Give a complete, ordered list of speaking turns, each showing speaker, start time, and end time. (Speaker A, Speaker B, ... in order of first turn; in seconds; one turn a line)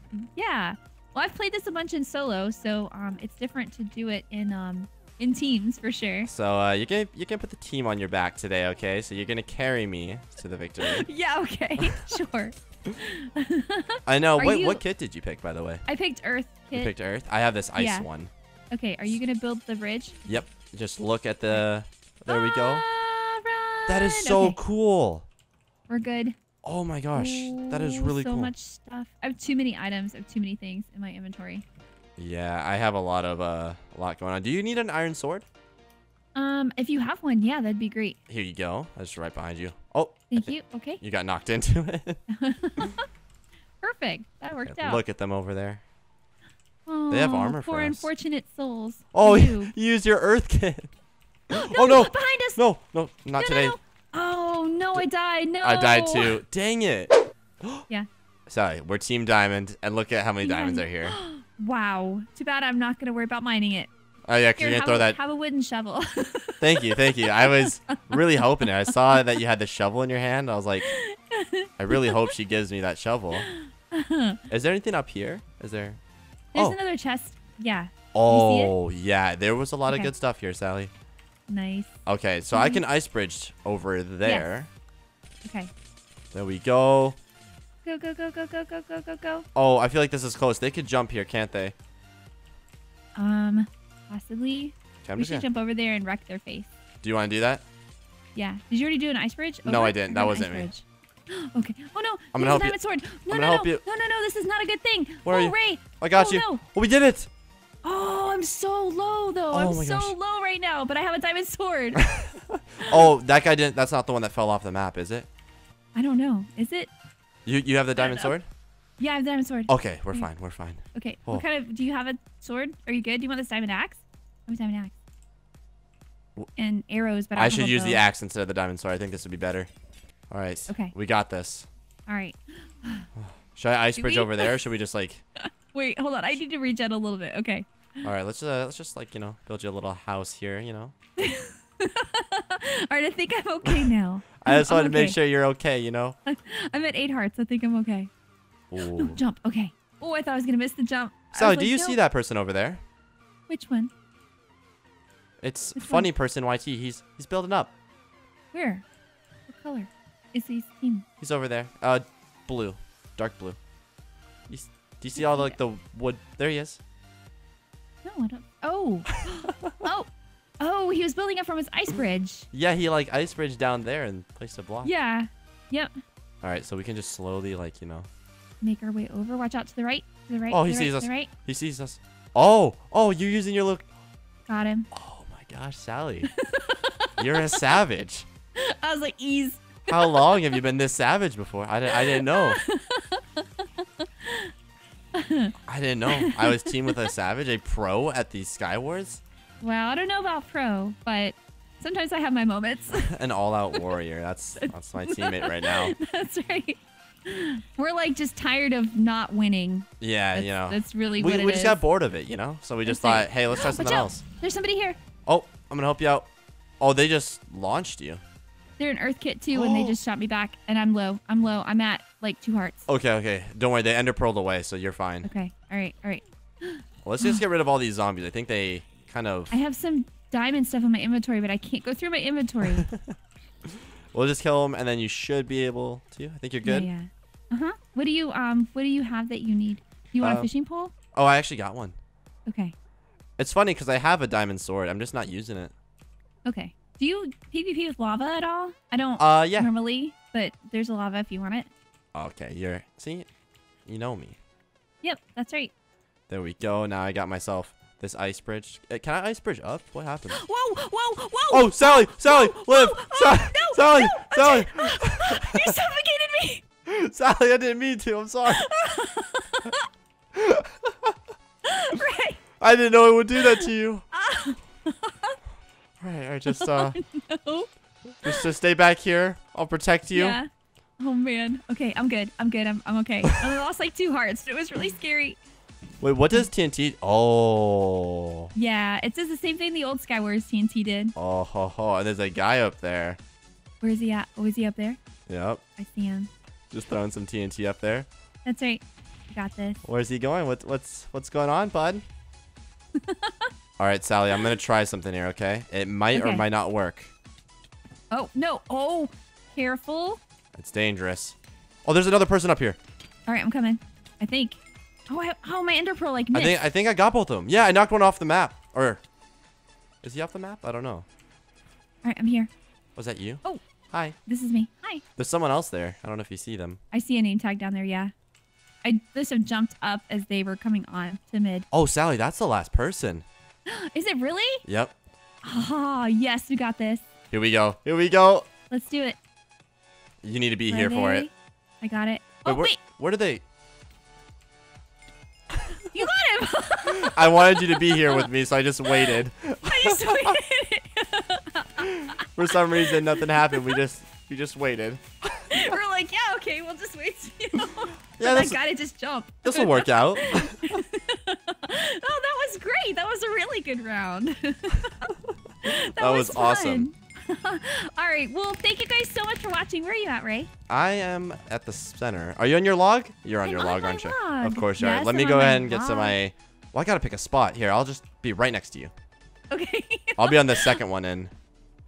Speaker A: 0.1-6.3
Speaker B: 6.2-11.1
Speaker A: 10.8-14.8
Speaker B: 11.8-12.1
Speaker B: 14.1-15.8
Speaker A: 15.9-16.9
Speaker B: 16.7-18.3
Speaker A: 17.8-18.1
Speaker A: 18.7-20.2
Speaker B: 20.3-22.9
Speaker A: 22.3-24.6
Speaker B: 23.9-25.3
Speaker A: 25.9-26.4
Speaker B: 26.6-28.5
Speaker A: 27.1-31.6
Speaker B: 32.2-35.4
Speaker A: 36.3-38.2
Speaker B: 38.3-42.2
Speaker A: 40.3-41.0
Speaker A: 42.3-43.1
Speaker A: 43.8-45.0
Speaker B: 44.6-45.8
Speaker A: 46.9-49.7
Speaker B: 47.1-48.1
Speaker B: 49.1-50.9
Speaker B: 51.5-53.8
Speaker A: 51.5-52.6
Speaker A: 53.4-56.4
Speaker B: 55.6-57.9
Speaker B: 58.5-61.2
Speaker A: 60.4-63.9
Speaker B: 64.3-65.2
Speaker A: 64.6-69.2
Speaker B: 66.6-70.9
Speaker A: 70.8-72.2
Speaker B: 71.8-73.4
Speaker A: 73.3-74.4
Speaker B: 74.5-76.0
Speaker A: 76.5-78.7
Speaker B: 78.1-80.9
Speaker A: 81.5-81.9
Speaker B: 82.0-84.7
Speaker A: 82.5-82.8
Speaker A: 84.2-84.5
Speaker A: 85.4-85.7
Speaker B: 86.3-87.2
Speaker A: 87.8-89.4
Speaker B: 89.5-91.7
Speaker A: 93.2-96.7
Speaker B: 95.0-95.5
Speaker B: 97.0-97.6
Speaker A: 98.3-106.6
Speaker B: 99.6-100.7
Speaker B: 102.3-102.8
Speaker B: 103.3-103.8
Speaker B: 105.2-107.3
Speaker A: 107.8-112.1
Speaker B: 109.5-110.1
Speaker B: 112.0-115.3
Speaker A: 115.9-116.9
Speaker B: 117.4-118.5
Speaker A: 118.0-118.3
Speaker A: 119.0-120.3
Speaker B: 119.7-121.4
Speaker A: 120.9-124.9
Speaker A: 126.6-128.0
Speaker B: 127.3-129.7
Speaker B: 130.3-131.7
Speaker A: 130.7-130.9
Speaker A: 132.1-133.1
Speaker B: 133.2-135.2
Speaker A: 134.0-134.6
Speaker A: 135.4-138.1
Speaker B: 138.0-140.9
Speaker A: 141.2-145.2
Speaker B: 144.4-146.2
Speaker A: 146.2-148.1
Speaker B: 148.7-149.2
Speaker A: 148.8-152.0
Speaker B: 151.3-152.8
Speaker A: 153.5-153.9
Speaker B: 155.4-157.7
Speaker A: 155.8-156.1
Speaker A: 158.5-158.8
Speaker A: 159.5-161.0
Speaker B: 161.2-163.6
Speaker B: 164.5-166.8
Speaker A: 165.2-165.6
Speaker A: 168.0-172.5
Speaker B: 169.2-169.8
Speaker B: 172.5-174.9
Speaker A: 174.8-175.9
Speaker B: 176.4-178.1
Speaker A: 178.6-181.3
Speaker B: 180.5-183.8
Speaker A: 184.5-184.9
Speaker B: 184.9-186.3
Speaker A: 186.2-187.7
Speaker B: 187.2-188.3
Speaker A: 188.6-190.5
Speaker B: 189.9-192.6
Speaker A: 191.9-194.5
Speaker A: 195.1-195.5
Speaker B: 195.7-199.2
Speaker A: 196.1-197.1
Speaker A: 199.6-203.1
Speaker B: 202.9-205.9
Speaker A: 204.6-211.8
Speaker B: 210.0-214.2
Speaker A: 212.8-215.0
Speaker B: 215.2-216.3
Speaker B: 216.8-218.2
Speaker A: 218.8-222.8
Speaker B: 219.5-220.0
Speaker B: 222.9-225.3
Speaker A: 225.2-227.4
Speaker B: 227.0-229.6
Speaker A: 229.5-232.9
Speaker B: 232.6-233.1
Speaker B: 233.7-236.9
Speaker A: 236.6-240.9
Speaker B: 240.2-240.5
Speaker B: 241.1-241.9
Speaker A: 242.5-242.7
Speaker B: 243.4-245.7
Speaker A: 246.4-251.7
Speaker B: 249.2-249.7
Speaker B: 252.1-253.3
Speaker B: 253.9-254.4
Speaker A: 255.0-255.7
Speaker B: 256.3-260.4
Speaker A: 260.3-266.6
Speaker B: 261.5-265.8
Speaker B: 266.9-268.7
Speaker A: 268.5-269.9
Speaker B: 270.3-271.1
Speaker A: 271.6-272.4
Speaker B: 272.6-274.1
Speaker A: 273.4-275.4
Speaker B: 276.0-277.0
Speaker A: 276.5-277.7
Speaker B: 278.2-280.4
Speaker A: 280.1-280.5
Speaker A: 281.0-285.4
Speaker B: 286.0-288.5
Speaker A: 288.6-291.1
Speaker B: 291.1-293.2
Speaker A: 293.8-295.0
Speaker B: 295.3-295.6
Speaker A: 295.8-296.3
Speaker B: 296.7-298.1
Speaker A: 298.4-299.8
Speaker B: 299.8-302.0
Speaker A: 303.0-303.5
Speaker B: 303.8-307.1
Speaker A: 306.1-306.4
Speaker A: 308.1-310.2
Speaker B: 310.6-312.8
Speaker A: 313.3-316.6
Speaker B: 316.3-319.0
Speaker B: 320.0-321.1
Speaker A: 322.0-322.5
Speaker B: 322.9-324.1
Speaker A: 324.2-325.0
Speaker B: 325.2-326.8
Speaker A: 326.9-328.1
Speaker A: 328.8-331.6
Speaker B: 331.7-333.2
Speaker A: 333.7-334.6
Speaker B: 334.6-334.9
Speaker A: 335.4-337.1
Speaker B: 337.3-338.5
Speaker A: 338.7-339.2
Speaker B: 340.2-341.3
Speaker A: 340.7-342.8
Speaker B: 342.4-343.4
Speaker A: 345.9-348.3
Speaker B: 346.9-350.4
Speaker A: 348.9-353.8
Speaker B: 351.8-355.8
Speaker A: 355.5-370.5
Speaker B: 358.2-358.6
Speaker B: 359.4-360.8
Speaker B: 365.8-366.9
Speaker B: 370.7-378.9
Speaker A: 373.4-376.2
Speaker A: 379.5-380.8
Speaker B: 380.2-381.3